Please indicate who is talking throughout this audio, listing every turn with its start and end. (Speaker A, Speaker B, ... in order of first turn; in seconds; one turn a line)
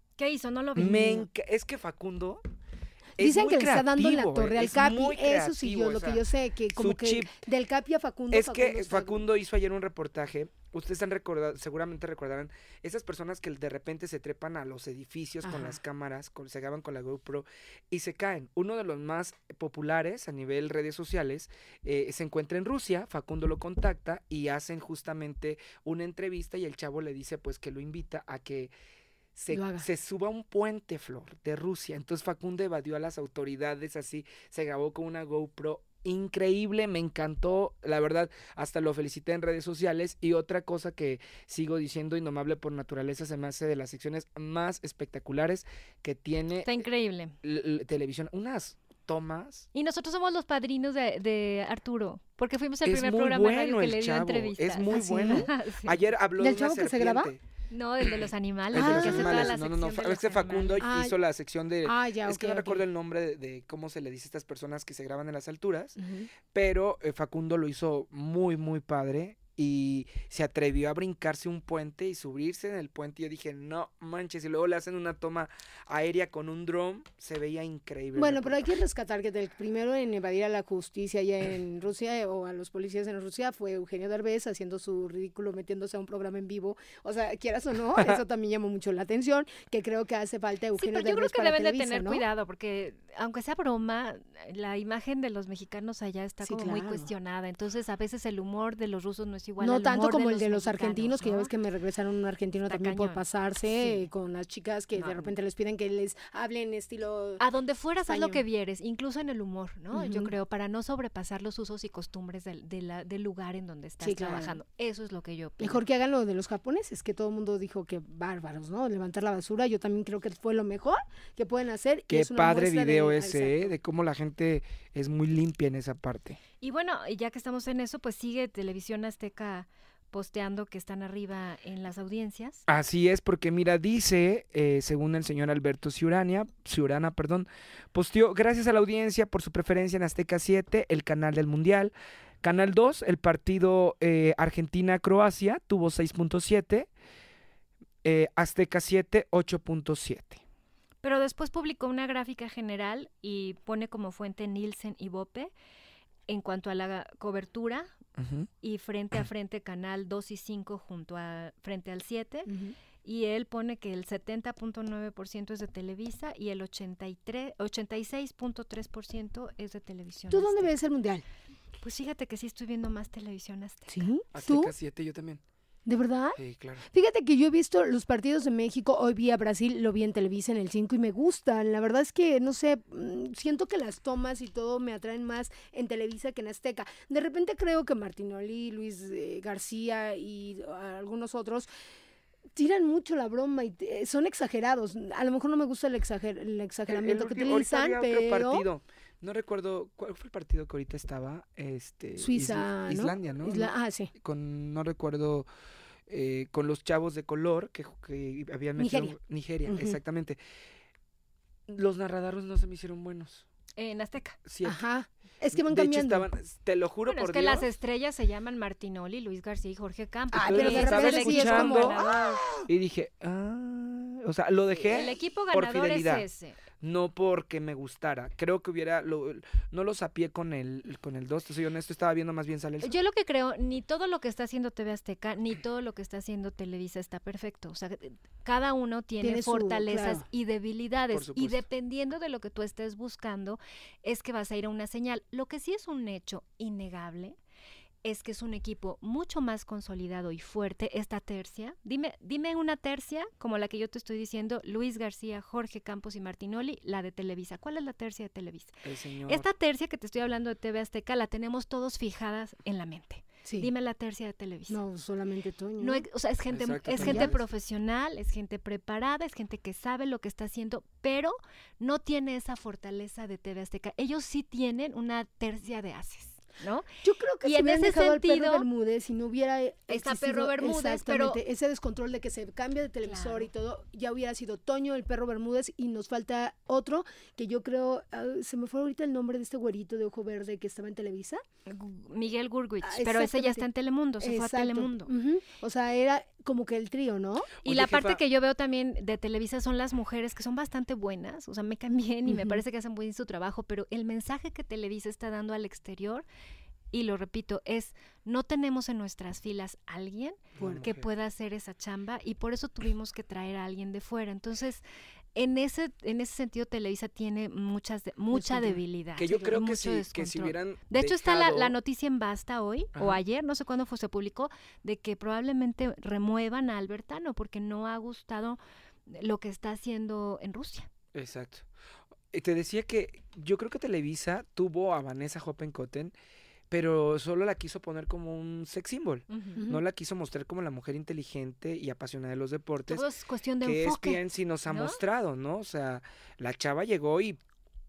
Speaker A: 0.2-1.3
Speaker B: 0.8-2.4
Speaker B: 3.2-6.2
Speaker C: 3.2-9.2
Speaker B: 6.8-7.4
Speaker B: 8.3-28.7
Speaker C: 15.4-15.8
Speaker B: 29.4-46.9
Speaker C: 29.5-29.9
Speaker A: 46.6-47.3
Speaker B: 47.4-49.7
Speaker A: 49.7-56.0
Speaker B: 52.8-57.4
Speaker C: 54.9-55.5
Speaker C: 56.4-57.3
Speaker A: 57.7-60.8
Speaker B: 58.0-66.0
Speaker C: 58.8-59.5
Speaker C: 60.8-61.2
Speaker C: 61.8-62.8
Speaker C: 66.0-66.3
Speaker B: 66.5-78.7
Speaker C: 78.1-92.2
Speaker B: 87.9-88.2
Speaker A: 90.8-101.5
Speaker C: 96.4-97.1
Speaker C: 99.6-107.4
Speaker A: 102.7-103.2
Speaker A: 103.8-104.0
Speaker A: 105.0-105.3
Speaker A: 107.4-115.8
Speaker C: 108.1-108.4
Speaker C: 109.9-110.3
Speaker C: 114.0-114.6
Speaker C: 115.6-123.8
Speaker B: 122.1-126.4
Speaker A: 126.6-132.6
Speaker B: 132.7-146.9
Speaker B: 148.0-150.4
Speaker A: 151.0-155.5
Speaker A: 156.3-157.9
Speaker B: 158.2-158.5
Speaker A: 158.6-162.5
Speaker C: 162.5-162.7
Speaker A: 163.0-170.7
Speaker C: 170.3-171.2
Speaker A: 171.8-174.1
Speaker C: 173.9-174.7
Speaker B: 174.3-175.4
Speaker C: 175.8-191.7
Speaker B: 176.4-176.8
Speaker C: 192.6-198.7
Speaker B: 196.9-205.5
Speaker C: 202.2-204.1
Speaker B: 206.1-210.4
Speaker C: 208.8-209.1
Speaker C: 209.7-210.0
Speaker B: 211.7-213.4
Speaker A: 213.8-214.4
Speaker B: 214.4-214.8
Speaker C: 214.6-216.2
Speaker B: 215.5-217.7
Speaker A: 217.0-222.5
Speaker C: 220.3-222.7
Speaker B: 220.4-222.0
Speaker B: 222.7-226.2
Speaker A: 224.9-226.6
Speaker B: 226.8-233.0
Speaker A: 232.8-247.4
Speaker C: 239.2-240.2
Speaker B: 241.1-241.6
Speaker A: 248.0-258.7
Speaker B: 258.8-259.5
Speaker A: 259.3-264.8
Speaker C: 263.4-263.7
Speaker C: 264.7-266.0
Speaker A: 265.8-276.9
Speaker B: 266.5-267.4
Speaker C: 267.0-267.3
Speaker C: 277.0-291.4
Speaker A: 277.4-278.6
Speaker A: 279.9-281.4
Speaker A: 283.0-283.5
Speaker A: 291.6-295.1
Speaker C: 292.8-293.6
Speaker C: 294.2-297.5
Speaker B: 297.6-298.2
Speaker A: 297.6-306.2
Speaker C: 302.3-302.6
Speaker A: 306.9-314.8
Speaker B: 310.6-311.1
Speaker C: 310.6-310.9
Speaker A: 315.3-330.9
Speaker C: 318.3-318.8
Speaker B: 319.2-321.7
Speaker B: 331.1-331.7
Speaker B: 332.3-336.1
Speaker B: 336.7-343.1
Speaker A: 339.3-339.6
Speaker A: 342.9-345.0
Speaker B: 343.6-347.4